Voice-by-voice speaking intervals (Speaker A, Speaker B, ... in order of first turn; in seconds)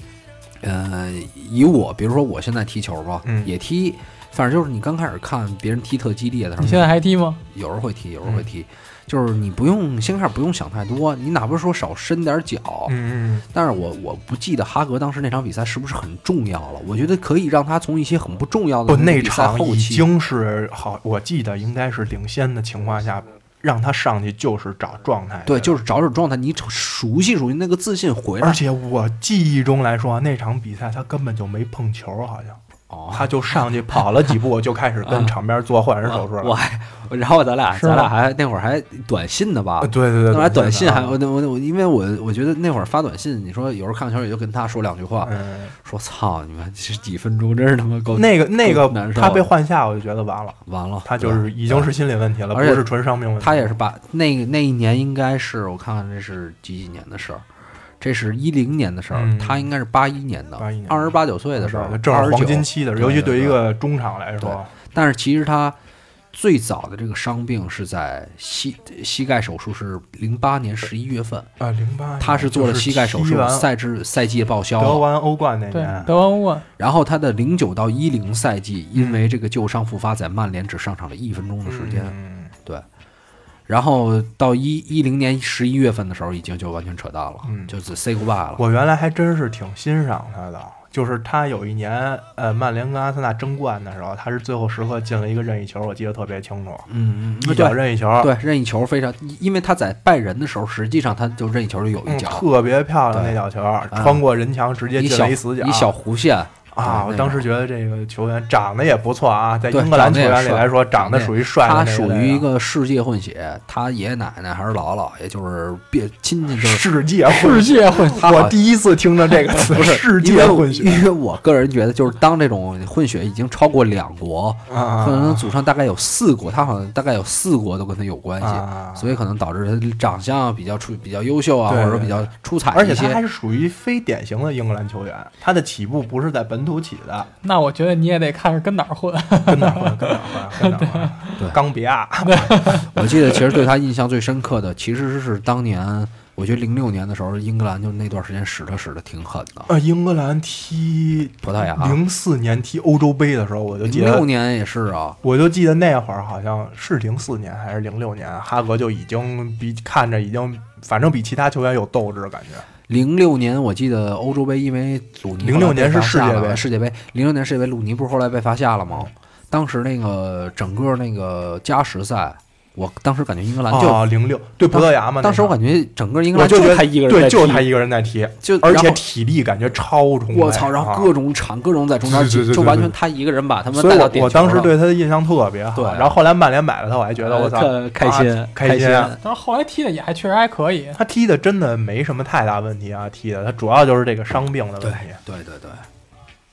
Speaker A: 0.6-6.9, 7.5-12.9, 13.5-20.1, 25.5-28.6, 32.9-33.3, 35.0-35.3, 36.0-49.5, 50.6-51.9, 52.5-52.9, 53.4-57.4, 58.0-63.7, 64.4-65.8, 66.3-71.5, 72.2-75.0, 76.8-82.8, 83.7-88.6, 96.9-102.5, 103.1-103.4, 103.9-104.2, 104.9-107.5, 109.7-116.8, 118.1-118.5, 119.7-133.2, 142.9-149.7, 151.4-152.0, 153.8-155.2, 162.9-174.1, 174.7-177.7, 178.4-179.0, 180.3-184.8, 185.7-186.2, 187.2-189.2, 194.8-195.8
Speaker B: 3.2-3.5, 12.8-13.4, 18.9-25.8, 28.4-32.6, 33.1-36.5, 39.8-41.2, 45.2-45.7, 48.1-53.7, 59.1-59.7, 60.6-64.7, 71.6-73.7, 74.8-76.1, 78.9-79.3, 81.7-82.5, 87.4-87.7, 88.5-96.9, 97.4-98.3, 102.0-105.9, 106.7-112.5, 116.5-121.0, 124.7-125.5, 128.4-129.2, 131.7-137.3, 139.4-142.8, 149.7-154.3, 155.2-162.7, 165.4-166.6, 173.7-175.6, 176.3-181.1, 182.0-183.0, 183.7-189.1, 190.9-195.2
Speaker C: 6.6-7.4, 37.7-38.1, 75.7-76.7, 117.3-118.5, 137.4-141.3, 142.2-142.9, 189.2-191.0